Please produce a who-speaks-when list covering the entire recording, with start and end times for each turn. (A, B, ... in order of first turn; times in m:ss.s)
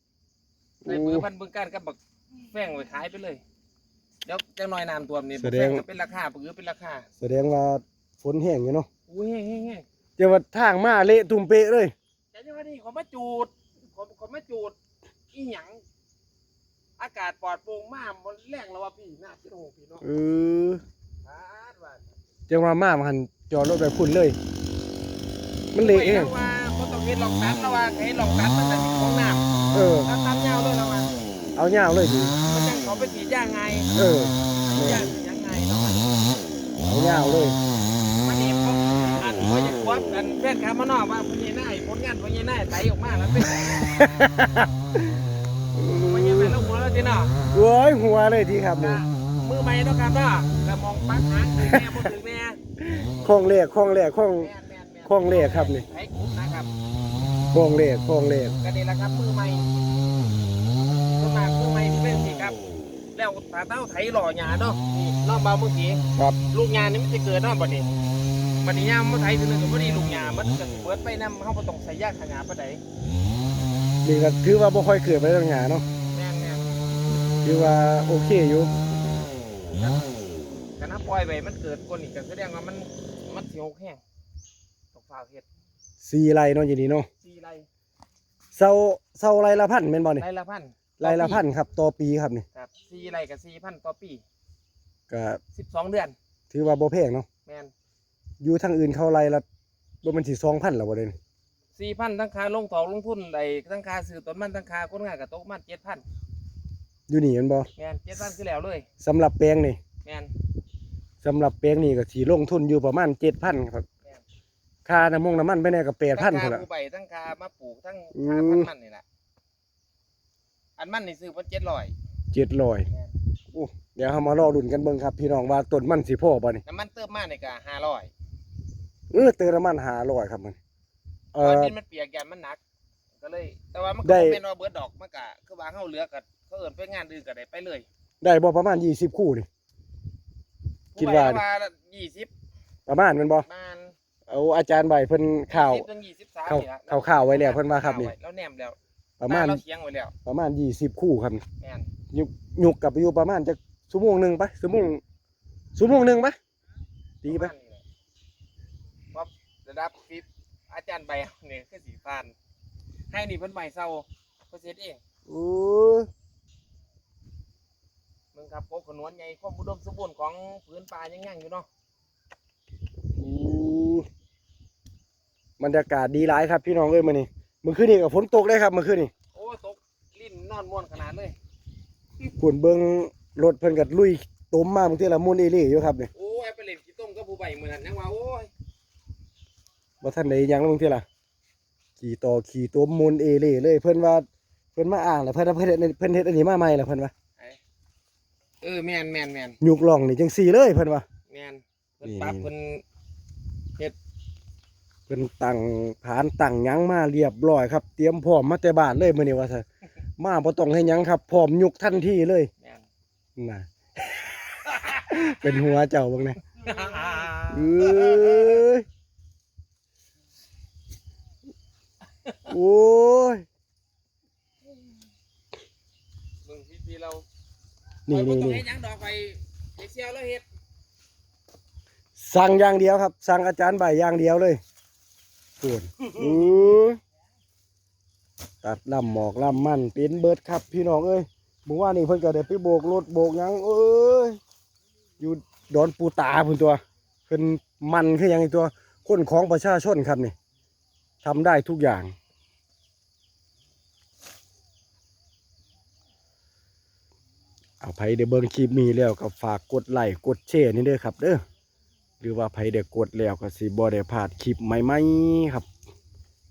0:00.8-0:01.3 A
0:00.8-0:02.0 B
0:02.5-0:03.4 B
0:04.2-0:07.1 B
0:05.4-0:05.8 A
0:07.2-0:08.9 A
0:09.1-0:09.8 B
0:10.2-0:11.9 A
0:12.3-0:14.8 B
0:15.3-0:15.8 B
0:17.0-0:20.0 B
0:20.0-0:20.8 A
0:21.2-0:22.2 B
0:22.5-0:24.4 A
0:25.7-0:26.3 A
0:25.7-0:29.4 B
0:29.7-0:30.1 A
0:30.0-0:31.1 B
0:31.6-0:32.4 A
0:32.4-0:33.9 B
0:33.9-0:35.1 A
0:34.7-0:36.4 B
0:36.8-0:37.6 A
0:38.2-0:44.0 B
0:43.9-0:45.0 A
0:45.7-0:46.5 A
0:45.9-0:47.3 B
0:47.5-0:49.0 A
0:48.8-0:52.6 B
0:52.8-0:54.5 A
0:54.4-0:56.7 B
0:55.0-0:55.8 A
0:57.5-0:58.6 A
0:58.6-0:59.7 B
1:01.1-1:02.6 B
1:03.1-1:07.9 B
1:08.6-1:12.8 B
1:14.0-1:15.8 A
1:16.1-1:16.6 B
1:17.4-1:18.7 A
1:19.7-1:24.0 B
1:24.9-1:25.4 B
1:26.0-1:27.1 A
1:27.2-1:27.7 B
1:28.5-1:30.2 A
1:30.2-1:31.4 B
1:31.0-1:32.4 A
1:32.5-1:34.2 B
1:35.1-1:35.4 A
1:35.5-1:36.1 B
1:36.5-1:37.3 A
1:37.4-1:37.7 B
1:38.4-1:39.4 A
1:40.0-1:41.2 A
1:41.7-1:46.0 B
1:47.1-1:47.7 A
1:47.8-1:48.8 B
1:49.0-1:49.8 A
1:50.0-1:50.3 B
1:51.2-1:53.8 A
1:54.8-1:56.6 A
1:56.1-1:59.0 B
1:58.1-1:58.7 A
2:00.8-2:01.9 B
2:02.3-2:02.9 A
2:03.5-2:06.6 A
2:06.6-2:08.1 B
2:09.1-2:10.6 A
2:11.3-2:11.7 A
2:11.4-2:12.6 B
2:13.2-2:17.8 B
2:14.0-2:14.4 A
2:18.2-2:19.4 A
2:20.9-2:22.3 B
2:21.0-2:21.4 A
2:22.9-2:23.5 A
2:23.4-2:23.9 B
2:24.3-2:25.8 A
2:25.5-2:30.1 B
2:26.5-2:28.1 A
2:29.2-2:29.6 A
2:30.2-2:31.4 A
2:31.6-2:31.9 B
2:32.1-2:35.0 A
2:35.8-2:36.4 A
2:37.2-2:37.5 A
2:37.2-2:37.8 B
2:39.1-2:42.3 B
2:43.1-2:45.0 B
2:45.3-2:46.1 A
2:48.3-2:51.7 B
2:53.2-2:54.1 A
2:55.6-2:59.1 A
2:59.3-3:01.4 B
3:02.4-3:06.1 A
3:06.1-3:08.5 B
3:10.0-3:11.0 A
3:12.0-3:17.1 A
3:18.6-3:19.6 B
3:19.6-3:21.0 A
3:21.3-3:22.8 B
3:22.0-3:22.5 A
3:25.1-3:29.6 A
3:30.2-3:32.5 A
3:32.6-3:32.8 B
3:33.4-3:36.4 A
3:34.7-3:35.0 B
3:36.6-3:38.3 B
3:37.5-3:38.8 A
3:42.5-3:43.4 A
3:46.4-3:47.2 B
3:48.1-3:48.6 A
3:48.1-3:50.4 B
3:52.2-3:54.6 A
3:55.6-3:57.0 A
3:58.6-4:04.4 A
4:05.2-4:10.3 A
4:11.2-4:12.1 A
4:17.8-4:21.4 A
4:22.2-4:25.7 A